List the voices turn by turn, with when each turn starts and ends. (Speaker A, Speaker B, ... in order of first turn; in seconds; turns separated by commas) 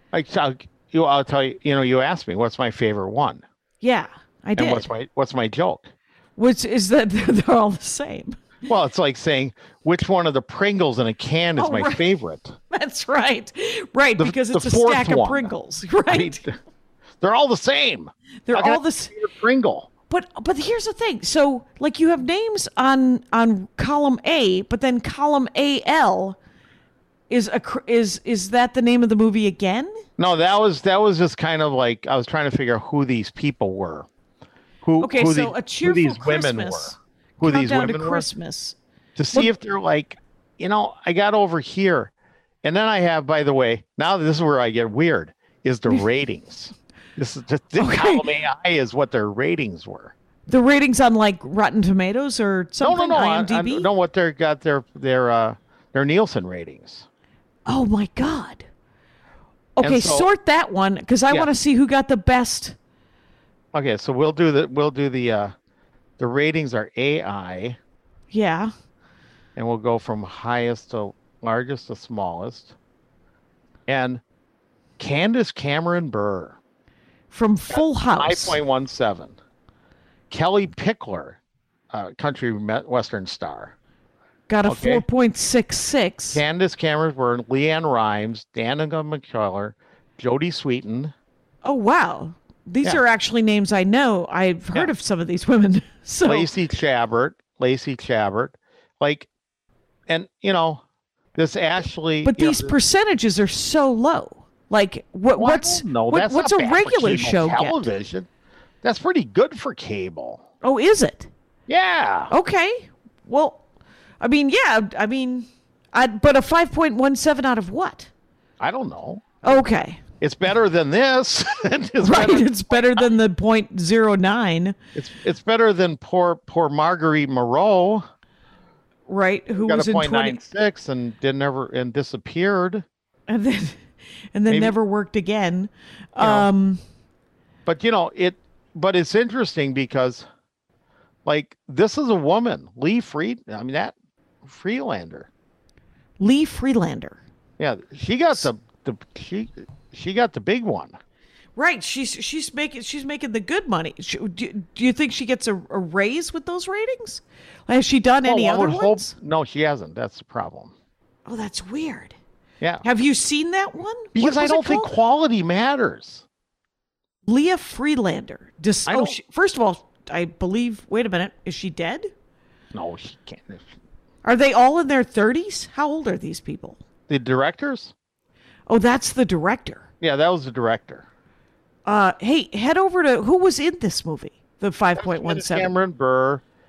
Speaker A: 0.1-3.4, Speaker B: 3.8-4.9, Speaker A: 4.5-5.9, Speaker B: 6.4-8.4, Speaker A: 8.6-12.6, Speaker B: 11.6-12.0, Speaker B: 12.7-16.4, Speaker A: 14.2-15.5, Speaker A: 16.0-16.6, Speaker A: 17.2-19.9, Speaker B: 18.5-19.1, Speaker B: 20.1-26.4, Speaker B: 27.3-30.0, Speaker A: 30.2-34.1, Speaker A: 34.8-38.3, Speaker B: 35.0-38.8, Speaker A: 39.1-42.1, Speaker A: 42.6-50.1, Speaker B: 47.8-48.2, Speaker B: 50.5-53.9, Speaker A: 52.8-57.0, Speaker B: 57.6-58.7, Speaker B: 59.8-62.8, Speaker A: 59.8-60.3, Speaker A: 63.7-65.5, Speaker A: 66.2-67.8, Speaker B: 68.3-68.7, Speaker A: 69.5-72.7, Speaker A: 73.9-74.2, Speaker A: 75.0-76.6, Speaker B: 77.3-78.6, Speaker A: 77.7-79.4, Speaker A: 80.3-81.4, Speaker A: 81.9-83.7, Speaker B: 84.5-86.4, Speaker A: 84.6-85.0, Speaker A: 86.3-91.1, Speaker B: 91.6-96.5, Speaker A: 96.2-99.3, Speaker A: 100.1-100.8, Speaker A: 101.3-102.8, Speaker B: 102.2-107.8, Speaker A: 105.3-108.3, Speaker A: 108.8-110.4, Speaker B: 110.6-111.3, Speaker A: 111.7-112.3, Speaker B: 112.3-113.6, Speaker B: 114.2-118.1, Speaker A: 118.6-119.6, Speaker B: 119.4-120.0, Speaker A: 120.2-123.1, Speaker B: 122.0-124.8, Speaker A: 124.9-128.1, Speaker B: 129.1-130.4, Speaker A: 129.6-132.8, Speaker B: 133.3-136.8, Speaker A: 134.5-134.7, Speaker A: 136.2-136.5, Speaker A: 137.7-140.2, Speaker A: 141.2-145.3, Speaker B: 146.2-147.2, Speaker A: 147.6-150.9, Speaker B: 151.6-159.1, Speaker A: 158.2-160.7, Speaker B: 161.2-162.2, Speaker B: 162.8-164.9, Speaker A: 164.1-166.2, Speaker B: 167.3-172.1, Speaker A: 168.8-169.2, Speaker A: 172.7-173.7, Speaker B: 174.2-176.8, Speaker A: 177.1-177.9, Speaker B: 178.7-179.8, Speaker A: 180.0-181.1, Speaker B: 181.8-185.7, Speaker A: 185.0-186.4